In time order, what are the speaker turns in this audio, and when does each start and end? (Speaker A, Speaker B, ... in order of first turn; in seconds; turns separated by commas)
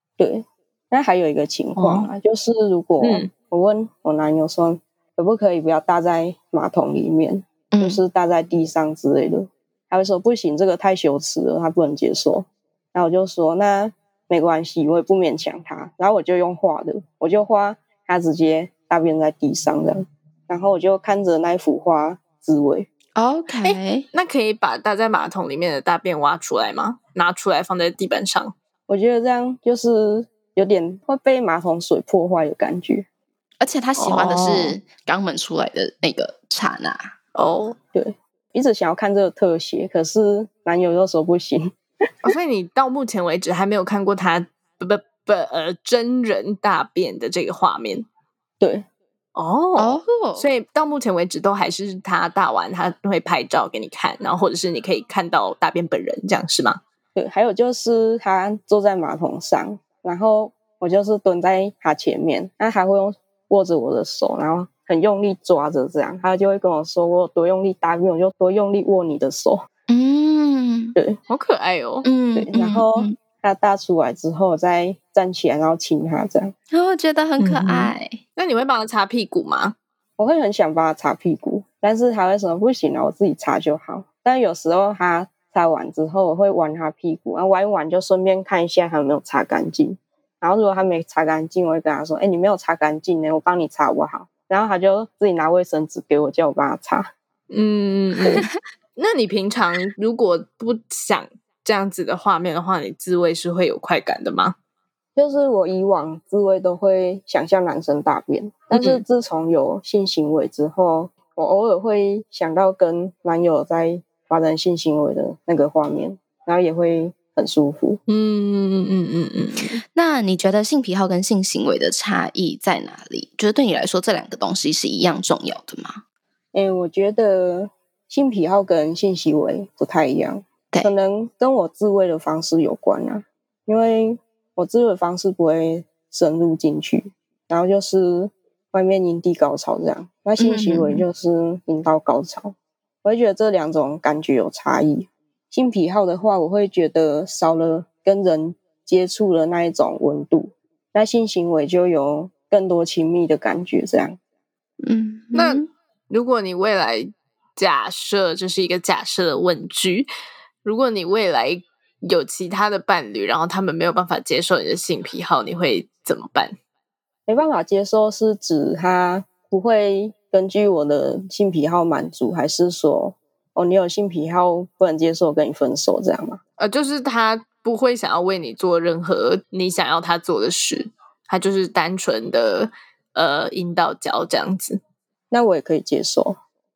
Speaker A: 0.2-22.9, Speaker B: 1.8-2.1, Speaker B: 3.0-3.3, Speaker C: 7.7-8.0, Speaker C: 23.1-24.0, Speaker B: 23.6-28.5, Speaker A: 28.9-33.0, Speaker C: 33.6-37.1, Speaker B: 34.0-34.8, Speaker B: 37.3-37.8, Speaker A: 37.9-41.8, Speaker B: 42.2-48.1, Speaker A: 48.6-48.8, Speaker B: 49.3-56.8, Speaker C: 49.8-50.5, Speaker A: 57.1-69.7, Speaker C: 69.9-71.0, Speaker B: 71.3-72.1, Speaker C: 72.0-73.1, Speaker A: 72.3-76.5, Speaker C: 76.7-78.2, Speaker B: 77.4-79.8, Speaker A: 80.2-97.1, Speaker B: 97.5-104.5, Speaker A: 105.2-118.0, Speaker B: 108.7-109.0, Speaker B: 118.1-119.8, Speaker C: 119.9-126.0, Speaker A: 126.5-154.2, Speaker C: 140.4-141.0, Speaker C: 154.8-155.7, Speaker B: 155.3-160.1, Speaker B: 160.6-166.6, Speaker A: 167.3-176.4, Speaker B: 176.6-184.8, Speaker A: 185.3-186.4